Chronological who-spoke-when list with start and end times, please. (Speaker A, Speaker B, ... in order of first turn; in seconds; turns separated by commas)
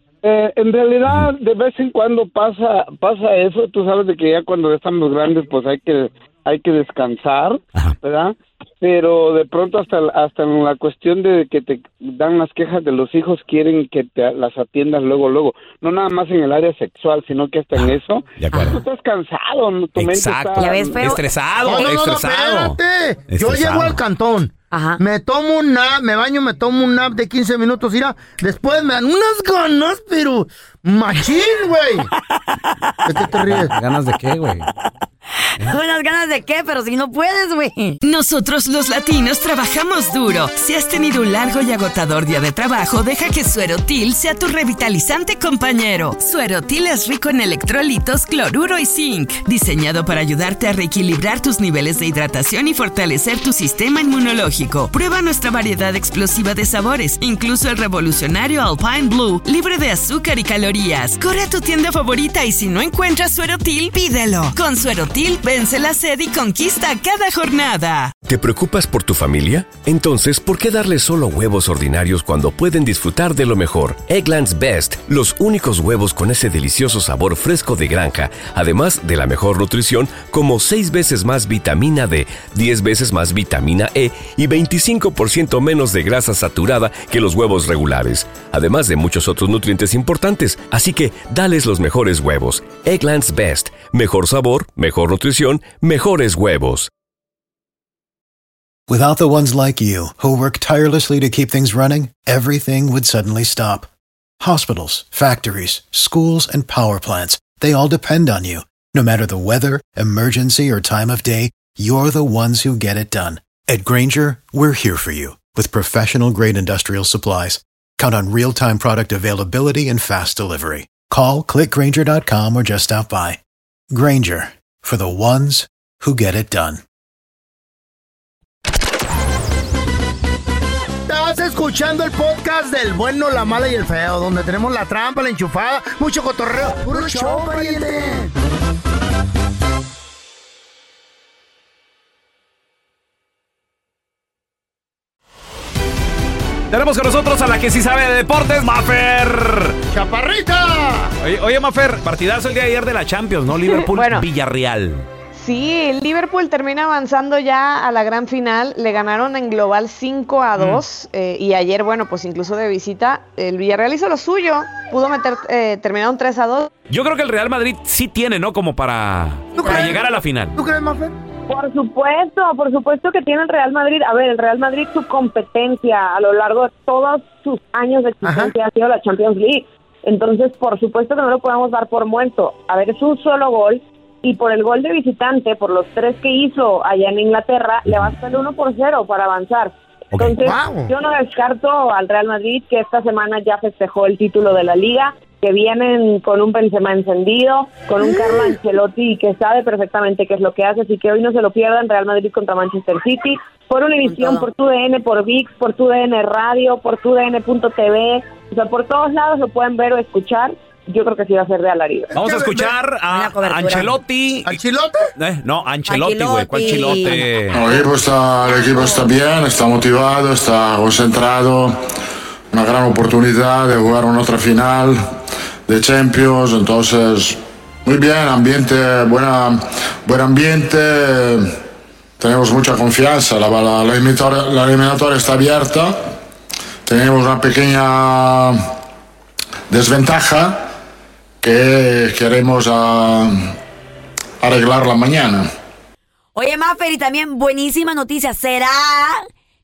Speaker A: 0.2-21.1, Speaker B: 17.8-18.8, Speaker C: 18.5-18.8, Speaker B: 19.9-22.8, Speaker C: 20.6-21.2, Speaker D: 21.6-32.1, Speaker B: 23.3-24.0, Speaker C: 24.7-25.0, Speaker D: 33.0-33.8, Speaker B: 33.4-34.6, Speaker C: 35.6-38.0, Speaker E: 38.0-68.1, Speaker F: 68.2-96.9, Speaker G: 98.9-103.9, Speaker G: 104.4-123.4, Speaker G: 123.9-126.8, Speaker D: 131.1-138.3, Speaker B: 146.7-149.8, Speaker D: 149.9-151.1, Speaker B: 151.2-155.1, Speaker H: 153.7-154.2, Speaker H: 155.3-166.7, Speaker B: 166.9-170.5, Speaker D: 169.6-170.0, Speaker D: 170.5-171.2, Speaker I: 171.5-212.1, Speaker D: 178.2-178.5, Speaker D: 190.4-190.9, Speaker D: 198.0-198.4, Speaker C: 204.0-204.5, Speaker D: 212.1-212.7, Speaker B: 212.1-214.6, Speaker C: 213.1-213.9, Speaker D: 214.4-215.1, Speaker B: 215.2-217.6, Speaker C: 215.9-217.9, Speaker J: 217.5-221.8, Speaker C: 218.5-219.0, Speaker J: 222.5-225.0, Speaker J: 225.7-231.5, Speaker J: 232.2-236.0, Speaker J: 236.9-238.6, Speaker J: 239.7-240.6, Speaker J: 241.4-243.5, Speaker J: 244.4-245.5, Speaker C: 246.3-249.3